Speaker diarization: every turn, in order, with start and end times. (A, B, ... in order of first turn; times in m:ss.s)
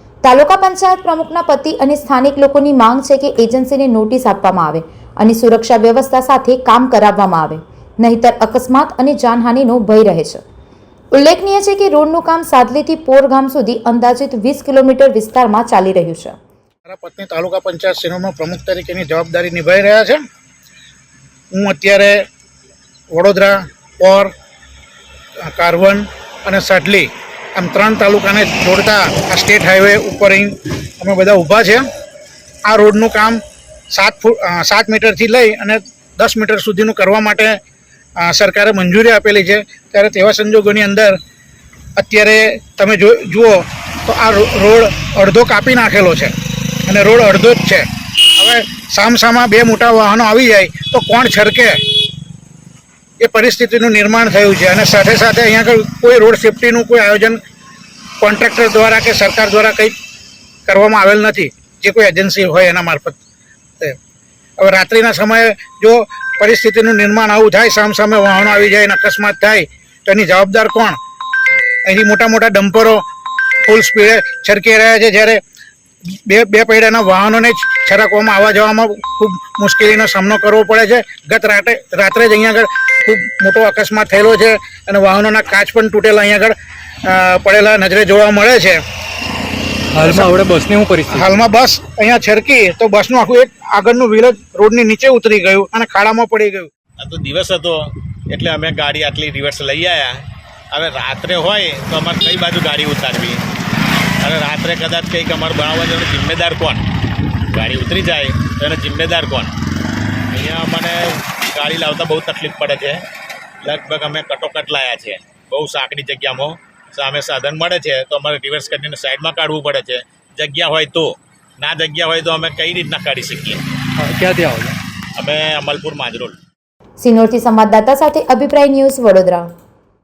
0:00.2-0:10.4 A
0:11.2-0:16.4 A
0:16.9-0:20.2 B
0:21.5-0:22.2 B
0:23.1-0:24.3 B
0:25.4-0:31.9 B
0:32.7-0:33.4 B
0:33.9-0:37.6 B
0:38.2-0:41.2 B
0:42.0-0:51.8 B
0:53.2-0:57.4 B
0:58.2-1:00.0 B
1:00.7-1:03.2 B
1:04.6-1:11.0 B
1:11.9-1:13.0 B
1:13.6-1:15.4 B
1:16.3-1:28.8 B
1:29.9-1:31.4 C
1:30.0-1:30.3 B
1:31.1-1:36.7 B
1:37.0-1:37.8 D
1:38.3-1:40.2 D
1:40.7-1:43.4 D
1:44.2-1:46.9 D
1:47.5-1:49.5 D
1:50.3-1:53.0 D
1:53.6-2:03.6 D
2:04.0-2:04.8 C
2:05.2-2:06.4 D
2:07.0-2:09.5 A